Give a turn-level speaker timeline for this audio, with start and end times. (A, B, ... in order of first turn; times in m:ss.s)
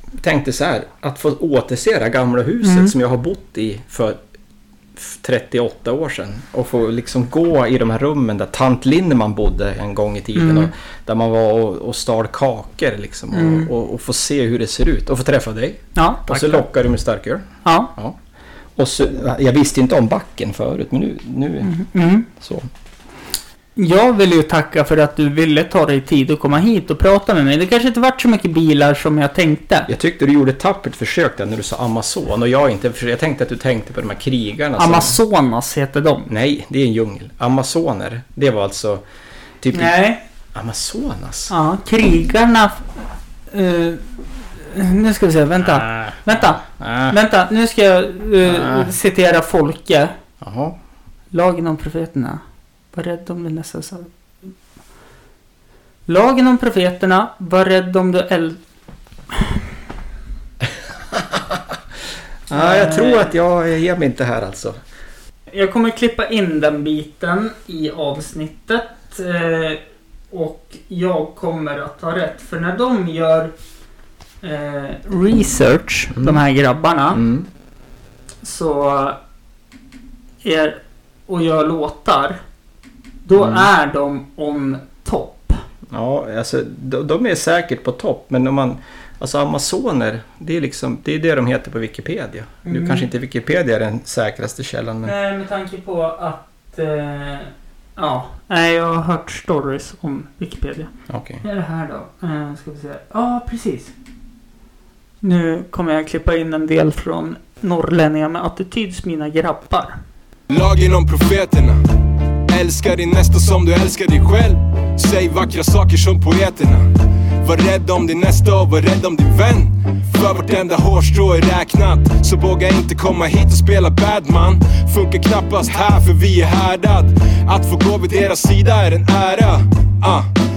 0:00.2-0:04.2 A
0:02.6-0:02.9 B
0:05.0-0:18.2 A
0:10.4-0:10.7 B
0:13.3-0:13.7 B
0:16.0-0:16.6 B
0:17.6-0:17.9 B
0:18.8-0:21.7 A
0:21.6-0:22.3 B
0:22.4-0:22.7 A
0:23.8-0:29.9 B
0:29.9-0:35.2 A
0:34.8-0:36.3 B
0:36.3-0:39.0 A
0:39.6-0:40.0 A
0:39.7-0:40.2 B
0:40.5-0:41.5 A
0:41.5-0:42.9 B
0:43.5-0:44.0 B
0:44.6-0:50.1 B
0:45.6-0:47.2 A
0:48.4-0:48.9 A
0:50.4-0:50.8 A
0:51.3-0:52.4 B
0:52.9-0:54.1 B
0:56.1-0:58.6 B
1:01.1-1:01.6 A
1:02.5-1:04.8 A
1:02.5-1:03.3 B
1:05.5-1:13.5 B
1:14.4-1:17.2 B
1:16.1-1:16.4 A
1:17.1-1:17.5 A
1:18.4-1:19.2 B
1:20.4-1:22.4 B
1:23.2-1:25.6 B
1:23.4-1:23.7 A
1:25.9-1:35.1 A
1:32.6-1:33.1 B
1:35.0-1:40.9 B
1:41.1-1:41.4 A
1:41.4-1:43.9 B
1:45.2-1:50.0 B
1:50.5-1:51.8 C
1:52.5-1:56.9 C
1:57.4-2:10.3 C